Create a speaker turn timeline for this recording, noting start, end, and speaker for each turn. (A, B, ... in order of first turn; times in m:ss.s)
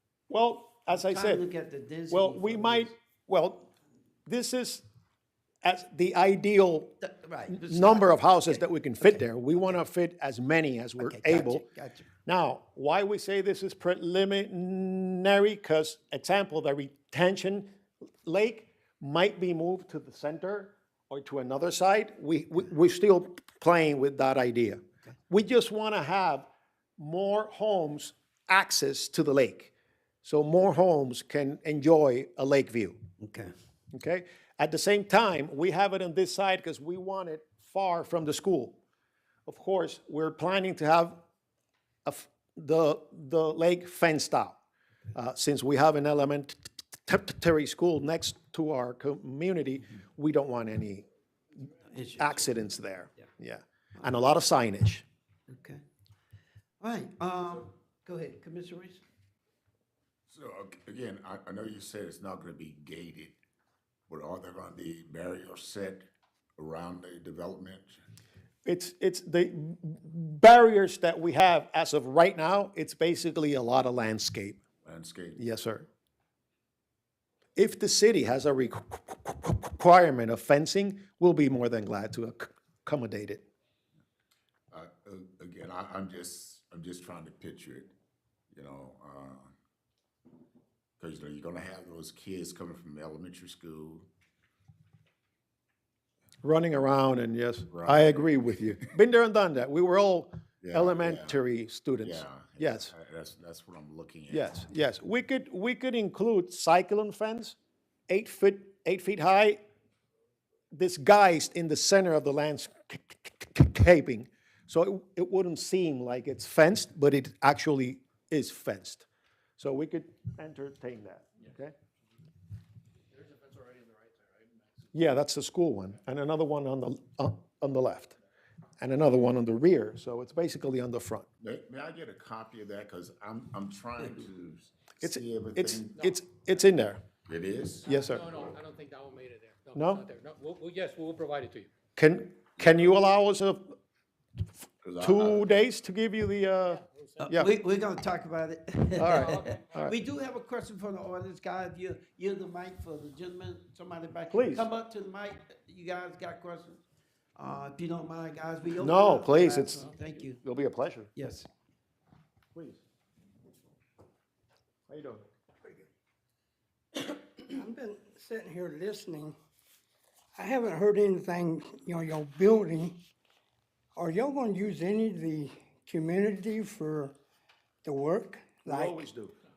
0:00.3-0:01.4 A
0:00.9-0:02.9 B
0:02.1-0:03.7 A
0:04.3-0:04.8 A
0:05.6-0:07.0 A
0:07.0-0:09.2 B
0:07.5-0:11.7 A
0:11.0-0:12.1 B
0:12.3-0:17.7 A
0:18.2-0:29.7 A
0:30.2-0:33.0 A
0:33.2-0:33.5 B
0:33.9-0:38.8 A
0:39.5-0:41.2 A
0:42.0-0:44.6 A
0:45.1-0:51.1 A
0:51.8-0:52.5 B
0:52.2-0:55.1 A
0:55.5-0:55.8 B
0:56.8-0:59.0 B
1:00.3-1:03.4 C
1:04.1-1:08.0 C
1:08.6-1:14.6 A
1:14.8-1:15.4 C
1:15.4-1:15.9 A
1:17.6-1:23.4 A
1:24.7-1:27.9 C
1:28.5-1:29.5 C
1:31.0-1:34.1 C
1:36.4-1:42.9 A
1:37.7-1:38.1 C
1:40.6-1:41.4 C
1:42.0-1:44.6 C
1:44.3-1:47.6 A
1:48.1-1:49.6 A
1:50.7-1:59.1 A
1:59.6-2:01.8 A
2:03.1-2:04.9 D
2:04.9-2:08.2 A
2:08.8-2:11.3 A
2:11.4-2:16.2 C
2:15.0-2:17.0 A
2:17.3-2:18.5 C
2:17.8-2:21.7 D
2:17.9-2:18.3 A
2:19.8-2:20.0 A
2:22.0-2:23.8 A
2:22.6-2:22.9 C
2:24.8-2:25.6 C
2:25.0-2:27.5 A
2:26.8-2:27.3 D
2:27.2-2:36.8 B
2:29.0-2:29.9 A
2:29.0-2:29.9 D
2:34.3-2:34.7 A
2:37.4-2:40.4 B
2:38.8-2:41.1 A
2:41.2-2:41.5 B
2:42.5-2:42.8 A
2:44.9-2:45.3 A
2:47.1-2:49.4 E
2:50.4-2:53.0 E
2:54.0-2:57.1 E
2:57.8-2:59.0 E
2:58.6-2:59.4 A